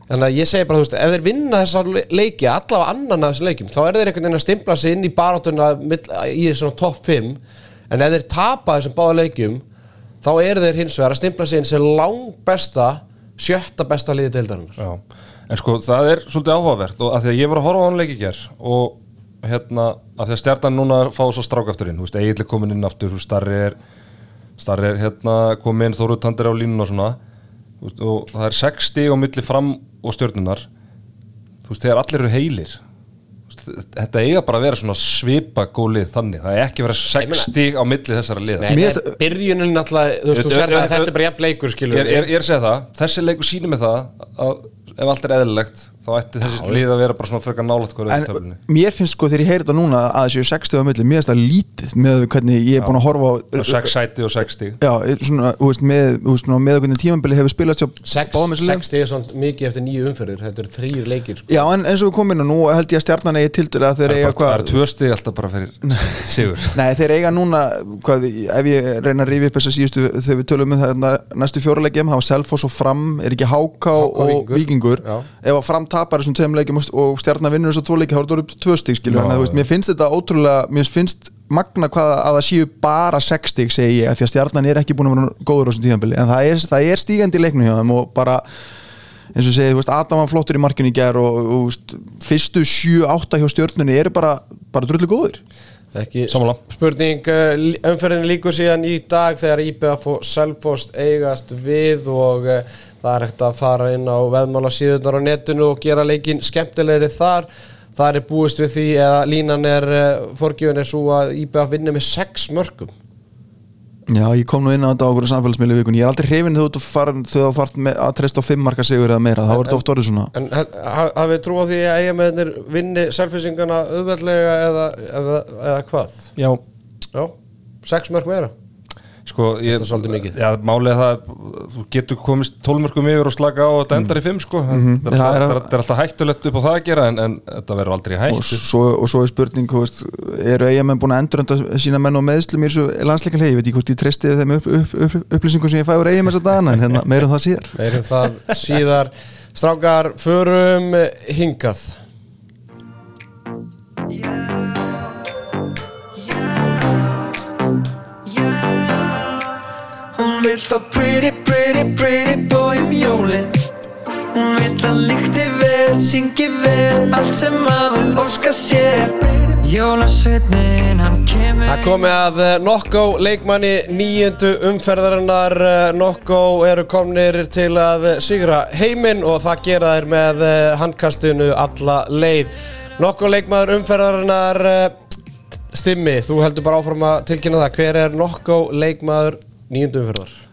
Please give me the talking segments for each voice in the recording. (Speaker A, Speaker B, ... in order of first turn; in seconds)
Speaker A: 0.1-9.6, 10.2-14.8, 37.1-37.5, 38.6-42.3, 58.0-61.7, 73.9-75.3, 95.9-112.9, 119.5-119.8, 120.3-126.3, 127.1-128.5, 129.7-130.4, 147.7-152.0, 171.6-184.9, 185.7-190.4
Speaker B: 14.8-23.8, 24.6-27.2, 27.8-30.7, 31.6-32.8, 33.5-38.7, 40.3-41.1, 41.9-48.5, 53.5-54.8, 64.0-66.8, 79.0-79.6, 96.3-96.6, 129.3-138.6
Speaker C: 38.7-39.1, 48.1-53.9, 54.8-58.8, 61.5-64.8, 65.9-66.1, 66.7-88.4, 89.3-95.4, 114.1-120.3, 134.7-135.7, 138.3-147.8
Speaker D: 154.1-154.8, 156.2-156.9, 158.3-159.3, 160.1-163.7, 164.3-172.1